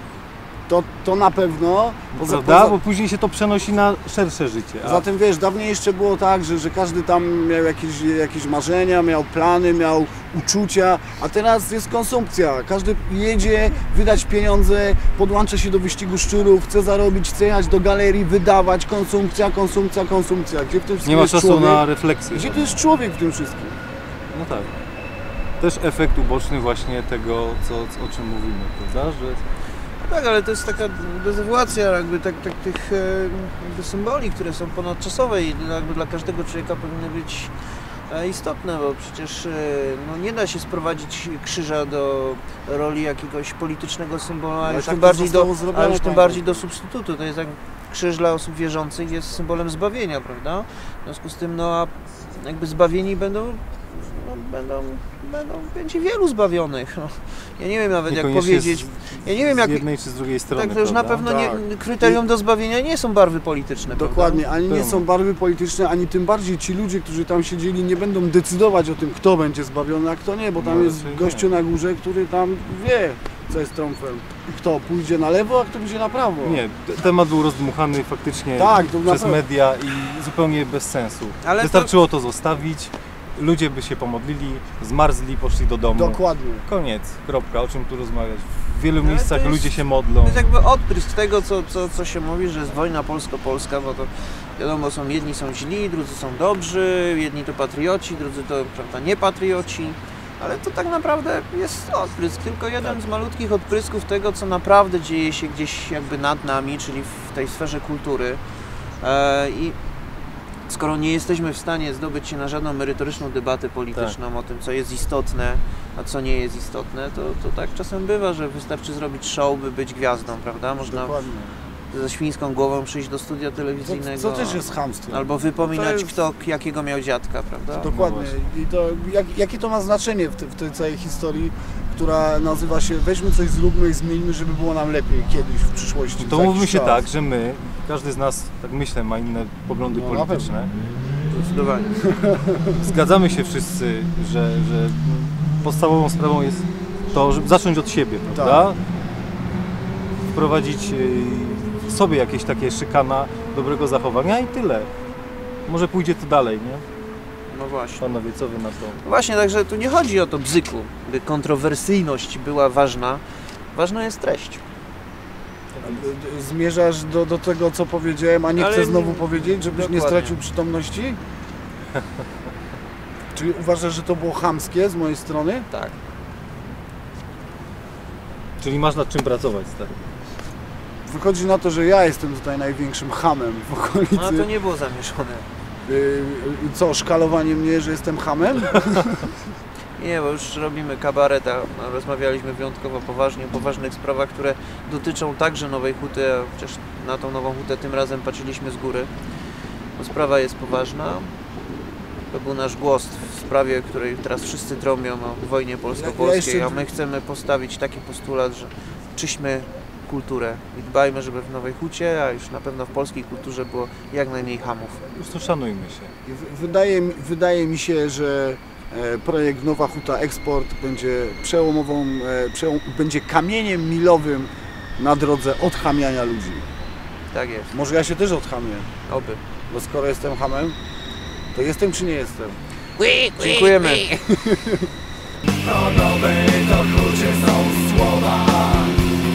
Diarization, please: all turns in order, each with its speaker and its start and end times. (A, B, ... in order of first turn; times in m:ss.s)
0:00.7-0:02.8 A
0:02.1-0:05.0 B
0:04.8-0:23.8 A
0:21.0-0:22.8 B
0:24.3-0:24.7 B
0:25.6-0:29.4 B
0:30.0-0:37.5 C
0:38.1-0:59.9 C
0:44.6-0:46.7 A
0:58.1-1:01.3 B
1:00.5-1:04.4 C
1:01.2-1:02.2 A
1:04.0-1:16.6 A
1:04.7-1:05.0 B
1:10.6-1:11.5 B
1:16.4-1:30.5 B
1:18.6-1:19.4 A
1:21.4-1:21.9 C
1:25.9-1:26.7 A
1:29.0-1:48.4 C
1:49.0-1:49.8 C
1:50.7-2:01.2 C
2:00.9-2:01.6 A
2:01.9-2:08.0 C
2:03.8-2:06.1 A
2:07.7-2:17.0 A
2:07.8-2:08.3 B
2:16.2-2:20.7 B
2:19.9-2:20.5 A
2:21.3-2:21.9 C
2:22.0-2:22.8 A
2:22.8-2:28.8 B
2:28.3-2:28.7 A
2:30.3-2:34.9 B
2:35.7-2:36.8 B
2:37.5-2:38.1 C
2:38.0-2:39.0 B
2:39.0-2:43.2 C
2:43.7-2:44.6 C
2:45.8-2:51.2 A
2:48.6-2:50.4 C
2:53.3-2:55.7 A
2:55.7-2:56.0 C
2:58.6-2:59.9 B
3:01.1-3:04.5 A
3:04.1-3:05.5 C
3:05.8-3:09.3 A
3:10.0-3:19.1 C
3:20.0-3:21.3 C
3:22.3-3:35.1 C
3:25.9-3:26.9 A
3:35.2-3:36.1 B
3:36.3-3:46.6 A
3:47.3-3:47.7 C
3:47.7-3:48.9 A
3:49.1-3:49.4 C
3:49.7-3:50.8 A
3:51.5-3:52.6 A
3:53.0-3:54.2 C
3:54.0-3:54.9 A
3:55.6-3:58.9 A